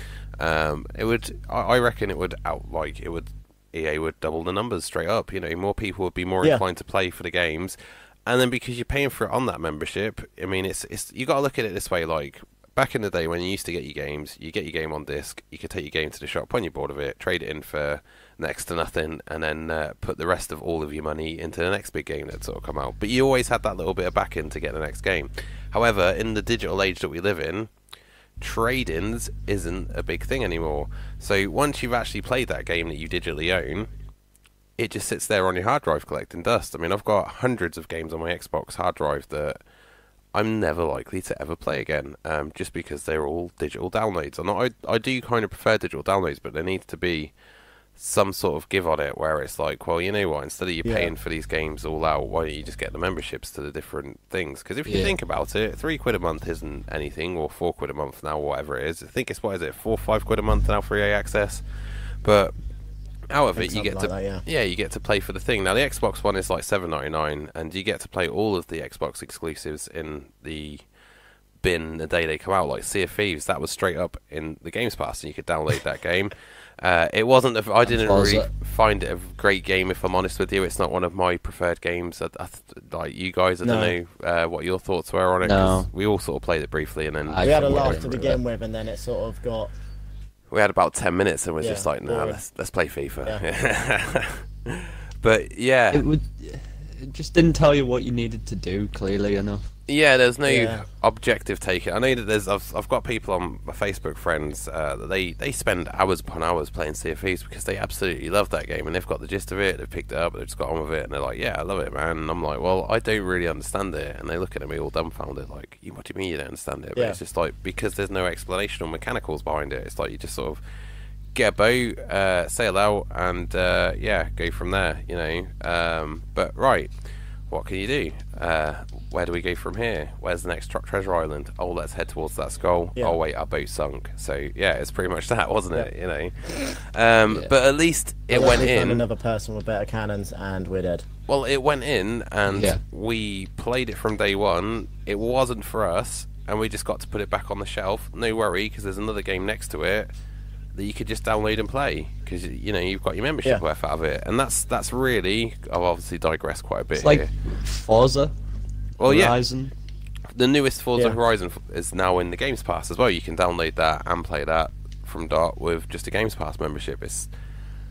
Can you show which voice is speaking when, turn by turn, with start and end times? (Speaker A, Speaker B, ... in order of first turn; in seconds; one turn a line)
Speaker A: 0.4-27.7
Speaker A: 28.4-33.9
Speaker A: 34.8-39.6
Speaker A: 40.3-47.3
Speaker A: 48.0-61.6
Speaker B: 50.8-51.1
Speaker C: 54.9-55.1
Speaker A: 62.2-62.5
Speaker A: 63.3-70.8
Speaker B: 63.6-64.5
Speaker A: 71.6-88.2
Speaker C: 77.8-78.5
Speaker B: 83.6-84.0
Speaker C: 85.4-85.9
Speaker C: 87.3-88.4
Speaker B: 87.4-89.7
Speaker A: 90.5-96.1
Speaker B: 91.6-92.4
Speaker C: 95.9-99.7
Speaker A: 99.9-120.6
Speaker B: 100.5-100.8
Speaker A: 121.3-126.9
Speaker A: 127.5-139.1
Speaker B: 138.3-141.1
Speaker A: 141.3-150.1
Speaker C: 142.5-142.8
Speaker A: 150.8-157.3
Speaker C: 157.0-158.3
Speaker A: 159.0-159.4
Speaker C: 159.0-159.7
Speaker A: 160.3-167.3